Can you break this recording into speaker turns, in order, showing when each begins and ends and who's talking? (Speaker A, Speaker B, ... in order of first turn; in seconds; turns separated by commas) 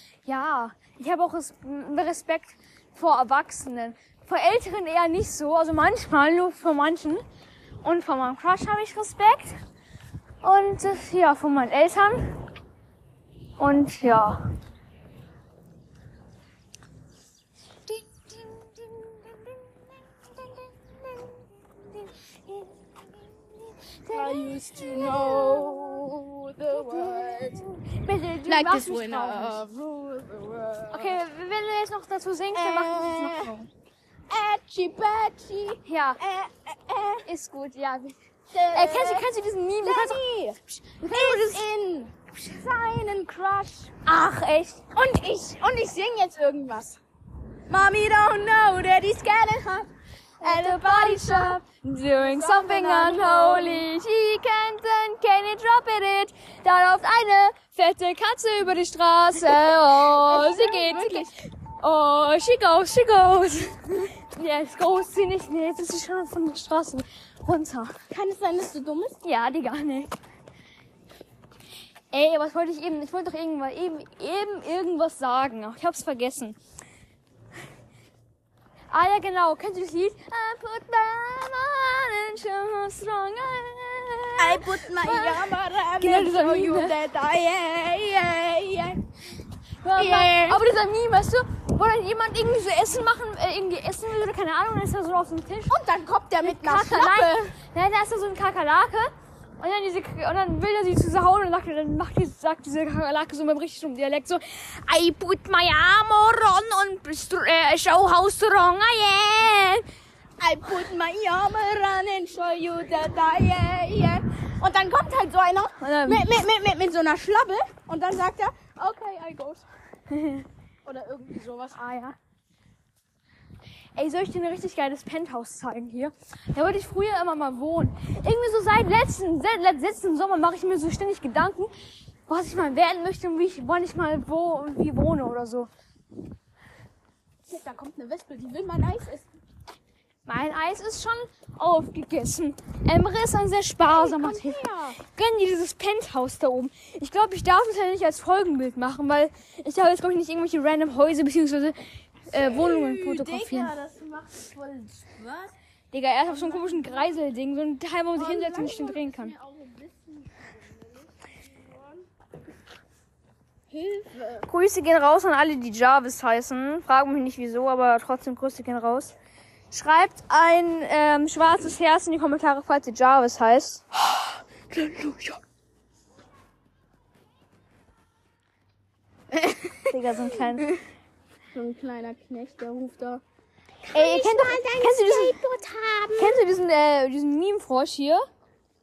Speaker A: 0.3-7.2, Speaker A: 7.8-9.6, Speaker A: 10.4-12.4, Speaker A: 13.6-14.4, Speaker A: 17.9-19.6, Speaker A: 20.3-21.4, Speaker A: 21.9-22.7, Speaker A: 23.5-26.1, Speaker B: 24.1-27.6, Speaker A: 26.7-29.6, Speaker B: 28.4-31.2, Speaker A: 30.9-33.7, Speaker B: 32.5-33.6, Speaker B: 34.3-37.3, Speaker A: 35.9-36.2, Speaker A: 37.3-41.6, Speaker B: 38.5-39.3, Speaker B: 39.8-43.9, Speaker A: 44.0-44.9, Speaker B: 44.9-47.0, Speaker B: 47.7-51.6, Speaker A: 50.4-68.0, Speaker B: 52.1-53.9, Speaker B: 59.8-61.3, Speaker B: 68.1-69.2, Speaker A: 69.2-70.1, Speaker A: 72.1-76.6, Speaker A: 78.9-87.0, Speaker B: 84.4-89.0, Speaker A: 89.8-95.8, Speaker B: 90.0-90.6, Speaker B: 95.7-97.5, Speaker A: 96.4-109.9, Speaker B: 110.4-119.7, Speaker A: 115.8-116.2, Speaker A: 120.1-120.5, Speaker B: 120.8-121.9, Speaker A: 121.8-122.2, Speaker A: 124.0-131.7, Speaker A: 132.3-135.7, Speaker B: 137.5-139.3, Speaker A: 140.3-153.7, Speaker B: 143.8-145.0, Speaker B: 152.3-155.6, Speaker A: 155.9-159.3, Speaker B: 156.2-157.2, Speaker B: 158.2-162.1, Speaker B: 163.7-164.5, Speaker A: 164.5-169.2, Speaker A: 169.7-175.4, Speaker B: 179.3-179.9, Speaker A: 179.9-180.8, Speaker B: 181.5-183.2, Speaker B: 183.9-186.5, Speaker A: 183.9-185.4, Speaker A: 186.2-188.2